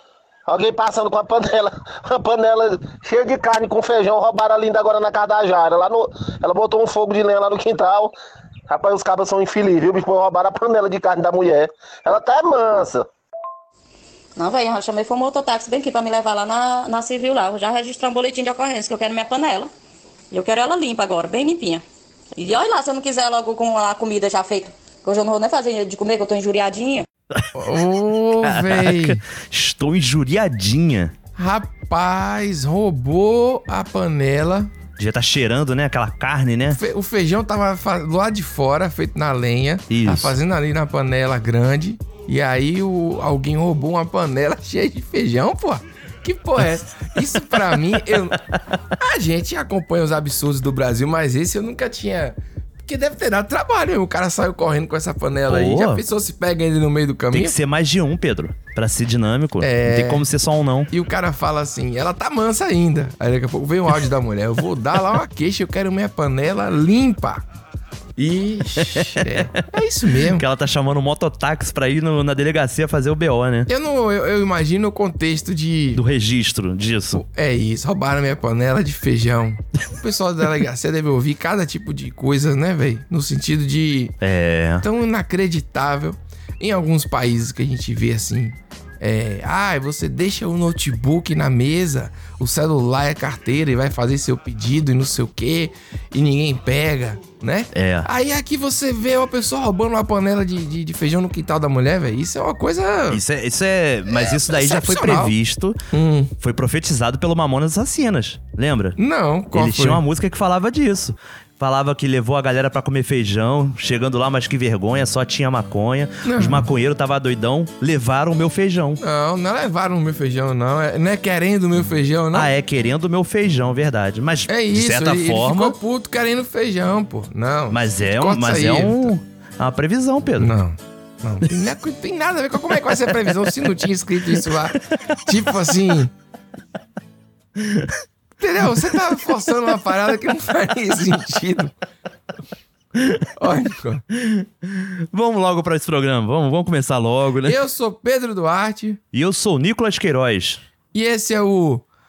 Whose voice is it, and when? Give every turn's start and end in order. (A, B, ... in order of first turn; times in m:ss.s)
0:00.5-0:08.1 A
0:08.7-0:13.1 A
0:14.4-0:19.7 B
0:20.3-0:21.8 B
0:22.4-0:27.0 B
0:27.5-0:29.2 C
0:28.4-0:31.1 D
0:31.4-0:34.7 C
0:35.0-0:36.8 D
0:36.7-0:48.4 C
0:39.9-0:40.4 D
0:47.3-0:48.3 D
0:49.0-0:57.6 C
0:55.5-0:56.0 D
0:57.3-1:00.9 D
0:59.6-1:00.2 C
1:00.9-1:07.4 C
1:08.2-1:10.4 C
1:08.8-1:09.5 D
1:10.2-1:13.7 D
1:13.7-1:16.0 C
1:15.9-1:17.2 D
1:17.1-1:24.1 C
1:24.2-1:24.9 D
1:24.8-1:43.2 C
1:37.7-1:38.1 D
1:43.1-1:45.8 D
1:44.1-1:45.3 C
1:45.9-1:46.3 C
1:46.4-1:49.0 D
1:49.0-1:50.0 C
1:49.5-1:59.0 D
1:56.2-1:56.7 C
1:59.0-2:02.5 C
2:02.3-2:05.8 D
2:04.5-2:09.2 C
2:07.7-2:10.6 D
2:10.4-2:16.1 C
2:12.9-2:13.7 D
2:14.3-2:14.9 D
2:17.6-2:18.0 D
2:18.4-2:21.7 C
2:18.7-2:19.0 D
2:23.0-2:23.2 D
2:23.4-2:24.0 C
2:24.1-2:27.6 D
2:27.4-2:29.0 C
2:29.1-2:30.6 D
2:30.9-2:31.8 C